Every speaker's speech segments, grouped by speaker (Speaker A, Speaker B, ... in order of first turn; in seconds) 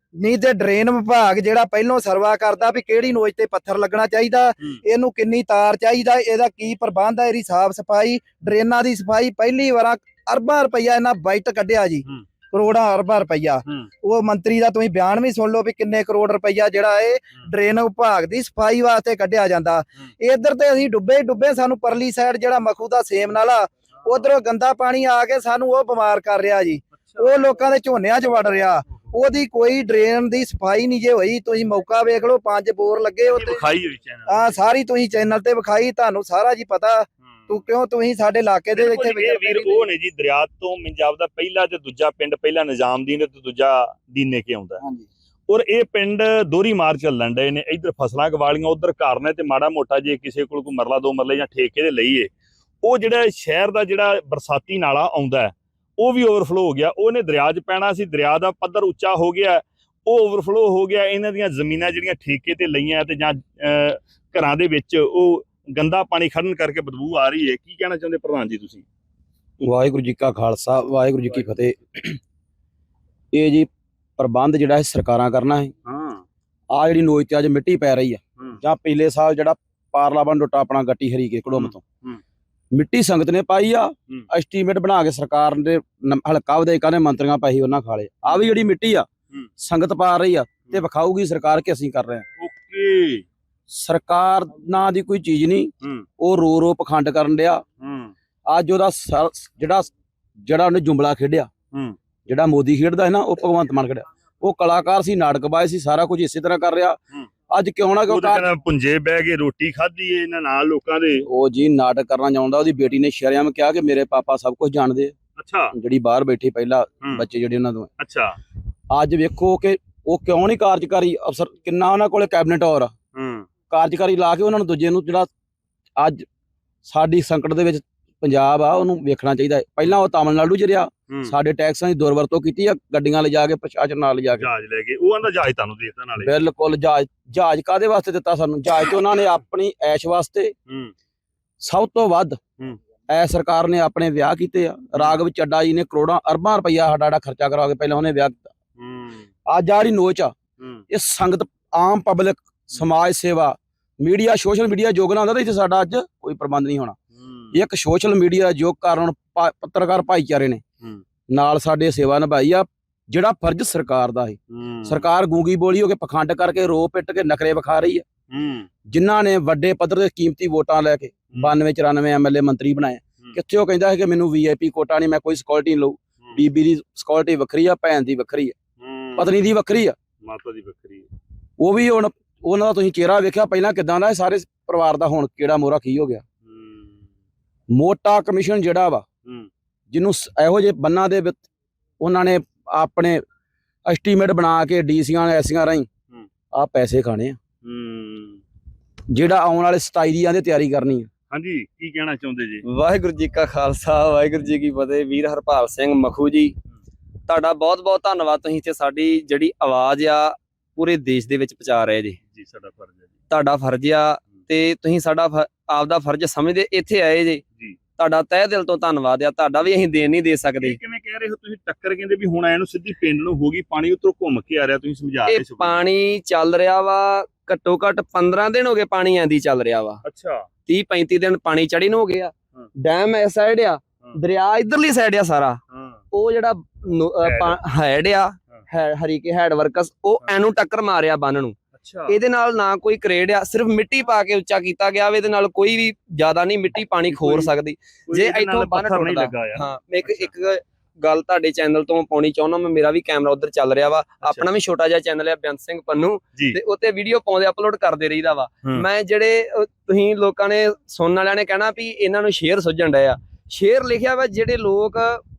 Speaker A: 0.2-33.7, 34.3-39.8
Speaker B: 33.2-34.6, 38.7-44.8, 45.5-52.3, 52.8-68.8, 75.8-76.2, 81.5-82.2, 92.4-93.2, 97.8-98.1, 108.1-111.3, 115.4-115.7, 118.0-118.4, 123.1-123.5, 131.1-131.3, 134.4-136.3, 140.7-140.9, 148.8-149.3, 157.2-157.5, 164.5-165.1, 168.3-168.7, 178.8-179.3, 180.2-181.1, 186.4-186.9, 197.6-198.4, 201.3-202.6, 212.3-213.1, 220.6-225.8, 230.0-230.5, 235.7-236.0, 237.2-237.6, 241.8-242.1, 247.1-247.5, 248.1-250.3
Speaker C: 69.6-72.2, 73.3-75.7, 76.7-81.8, 82.7-89.1, 89.6-92.2, 93.7-97.6, 98.5-99.9, 100.4-101.5, 102.3-107.0, 107.5-108.5, 111.2-115.1, 115.7-117.9, 118.9-122.9, 123.7-125.3, 126.0-126.2, 126.8-134.5, 136.2-140.5, 141.6-142.4, 143.1-148.5, 149.5-150.3, 150.9-157.0, 157.5-160.6, 161.3-168.0, 168.9-178.6, 179.2-180.0, 181.6-186.2, 187.7-189.1, 189.9-191.4, 192.0-193.2, 193.8-195.9, 196.5-197.4, 199.1-201.1
Speaker D: 202.6-206.5, 207.3-212.2, 213.3-217.4, 218.0-220.8, 225.3-230.0, 230.7-235.6, 236.1-241.6, 242.1-265.2